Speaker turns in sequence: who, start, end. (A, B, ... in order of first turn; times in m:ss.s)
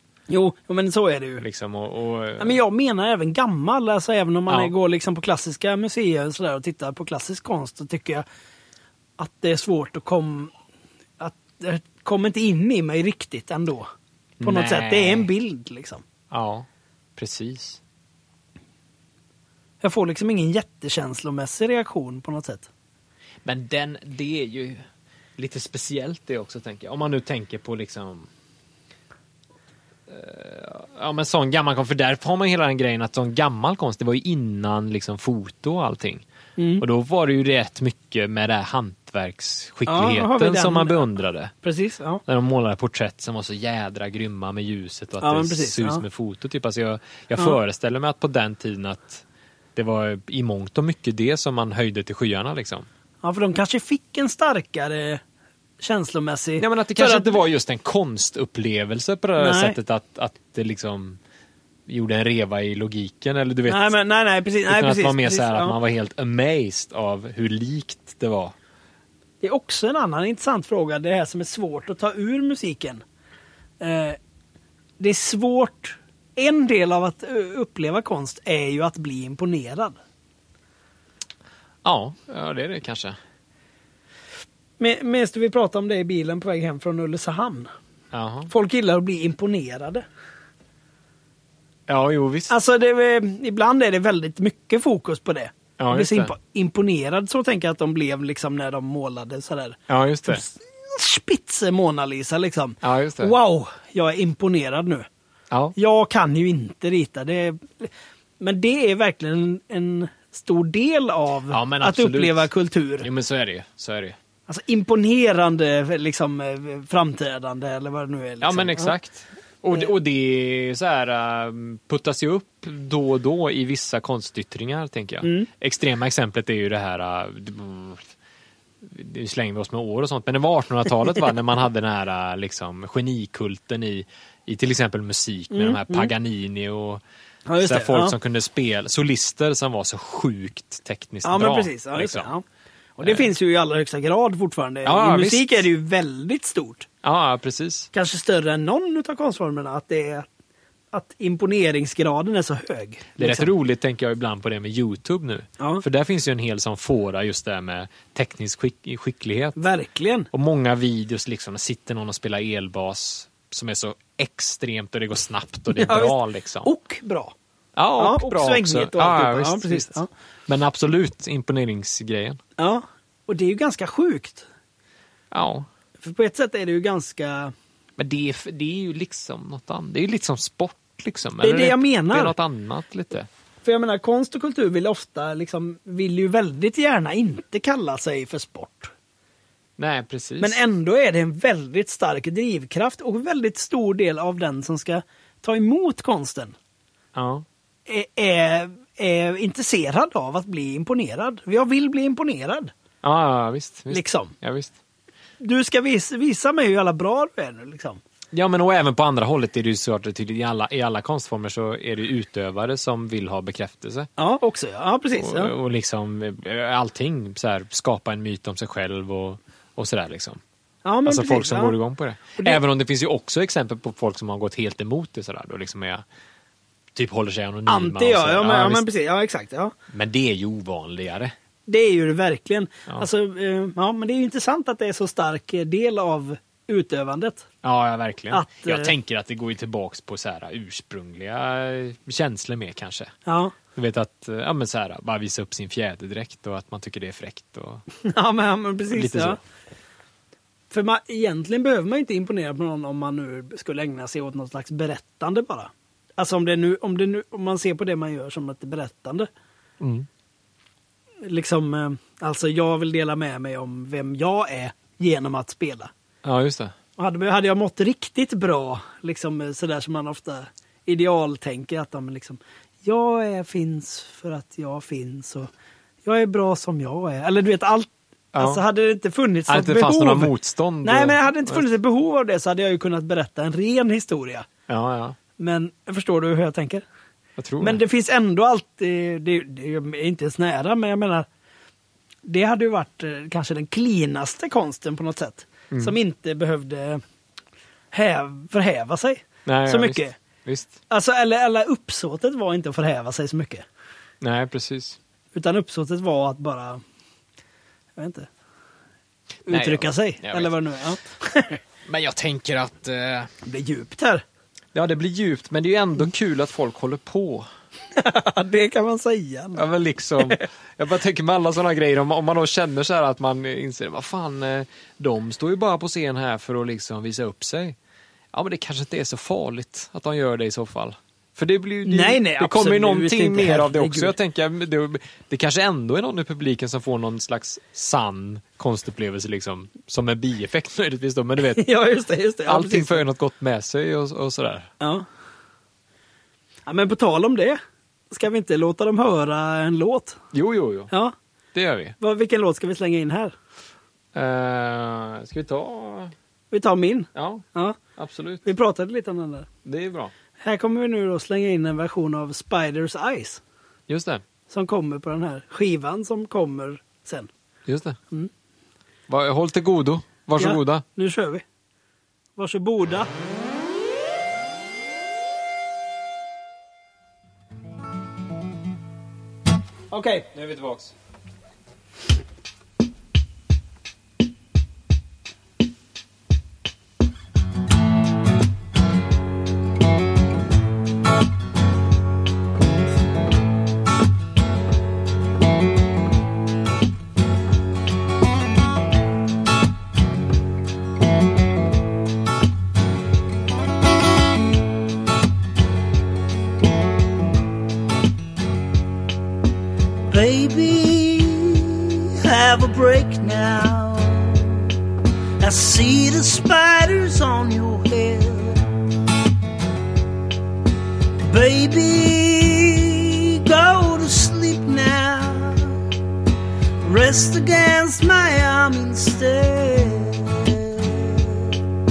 0:00.3-0:01.4 A
0:01.4-0:02.6 B
0:02.4-0:08.2 A
0:04.5-0:04.7 B
0:09.2-0:10.5 A
0:11.2-0:13.9 A
0:14.4-0:15.3 B
0:14.4-0:16.0 A
0:16.3-0:17.8 B
0:19.8-0:22.7 A
0:23.4-0:24.8 B
0:25.4-0:28.3 B
0:30.1-0:36.2 B
0:36.6-0:36.8 A
0:36.8-0:41.5 B
0:39.9-0:41.1 A
0:41.6-0:42.2 A
0:42.3-0:49.2 B
0:45.2-0:46.0 A
0:49.8-0:52.9 B
0:53.2-0:55.2 A
0:55.8-0:57.4 A
0:56.6-1:01.2 B
0:59.4-0:59.8 A
1:01.9-1:04.0 B
1:03.7-1:05.8 A
1:04.7-1:08.6 B
1:09.4-1:13.0 A
1:13.8-1:14.2 A
1:15.0-1:20.0 A
1:21.8-1:23.2 B
1:24.8-1:27.7 A
1:28.1-1:28.5 B
1:28.5-1:30.1 A
1:31.9-1:32.5 B
1:32.5-1:45.1 A
1:35.8-1:36.3 B
1:39.9-1:40.4 B
1:42.8-1:43.4 B
1:45.5-1:45.8 B
1:45.8-1:53.1 A
1:51.5-1:52.5 B
1:53.0-1:54.2 B
1:54.5-1:58.9 A
1:58.4-2:08.1 B
2:05.2-2:05.5 A
2:08.8-2:17.0 B
2:15.5-2:16.1 A
2:17.5-2:18.2 A
2:17.6-2:22.3 B
2:21.2-2:22.4 A
2:23.0-2:26.9 A
2:23.0-2:23.3 B
2:24.8-2:25.7 B
2:27.0-2:27.9 B
2:27.9-2:30.3 A
2:30.9-2:33.5 A
2:33.2-2:39.6 B
2:35.6-2:35.8 A
2:39.6-2:40.3 A
2:40.3-2:46.7 B
2:45.7-2:47.4 A
2:47.8-2:52.4 B
2:48.0-2:50.1 A
2:52.6-2:54.5 A
2:55.3-2:55.7 B
2:56.0-2:57.5 A
2:58.0-3:03.3 B
3:01.4-3:02.4 A
3:03.6-3:08.9 A
3:09.8-3:10.6 B
3:10.4-3:16.6 A
3:17.2-3:17.4 B
3:17.9-3:22.7 A
3:23.0-3:24.7 B
3:23.9-3:24.4 A
3:25.4-3:28.0 A
3:28.3-3:34.1 B
3:34.2-3:35.5 A
3:35.2-3:40.4 B
3:40.8-3:41.8 A
3:41.0-3:46.0 B
3:47.0-3:48.9 B
3:47.7-3:49.7 A
3:49.9-3:51.3 B
3:51.7-3:57.5 A
3:57.6-4:03.1 B
3:58.3-3:58.9 A
4:03.3-4:03.6 A
4:03.7-4:07.8 B
4:08.0-4:09.4 A
4:08.9-4:09.4 B
4:10.7-4:19.3 A
4:19.8-4:20.1 B
4:21.2-4:25.9 A
4:26.2-4:26.8 B
4:27.0-4:35.5 A
4:36.0-4:40.3 A
4:38.3-4:38.6 B
4:39.5-4:41.7 B
4:40.8-4:44.5 A
4:44.7-4:45.2 B
4:45.4-4:46.8 A
4:47.4-4:47.8 B
4:47.6-4:51.3 A
4:52.3-4:57.0 A
4:57.9-5:00.2 A
4:59.5-5:00.8 B
5:00.9-5:03.7 A
5:04.2-5:05.0 B
5:05.3-5:06.8 A
5:08.0-5:08.3 A
5:09.5-5:11.6 A
5:09.5-5:10.5 B
5:11.9-5:13.3 B
5:13.4-5:14.2 A
5:14.7-5:17.5 B
5:17.9-5:19.6 A
5:19.6-5:27.8 B
5:28.3-5:41.7 B
5:31.8-5:34.2 A
5:41.5-5:43.0 A
5:42.5-5:44.7 B
5:44.8-5:45.1 A
5:46.7-5:47.6 A
5:48.1-5:50.2 A
5:50.3-5:50.9 B
5:51.5-5:52.0 B
5:52.0-5:53.4 A
5:54.2-5:56.1 B
5:56.5-5:57.8 A
5:57.2-5:57.4 B
5:58.0-5:58.4 B
5:58.4-5:59.5 A
5:59.6-6:00.1 B
6:00.4-6:03.4 A
6:03.9-6:04.2 B
6:04.5-6:07.3 A
6:07.7-6:08.0 B
6:09.1-6:10.8 B
6:10.4-6:11.4 A
6:12.4-6:13.1 A
6:19.9-6:20.3 A
6:20.3-6:21.0 B
6:50.1-6:54.8 A
6:55.4-6:58.8 A
7:01.2-7:05.8 A
7:06.8-7:11.6 A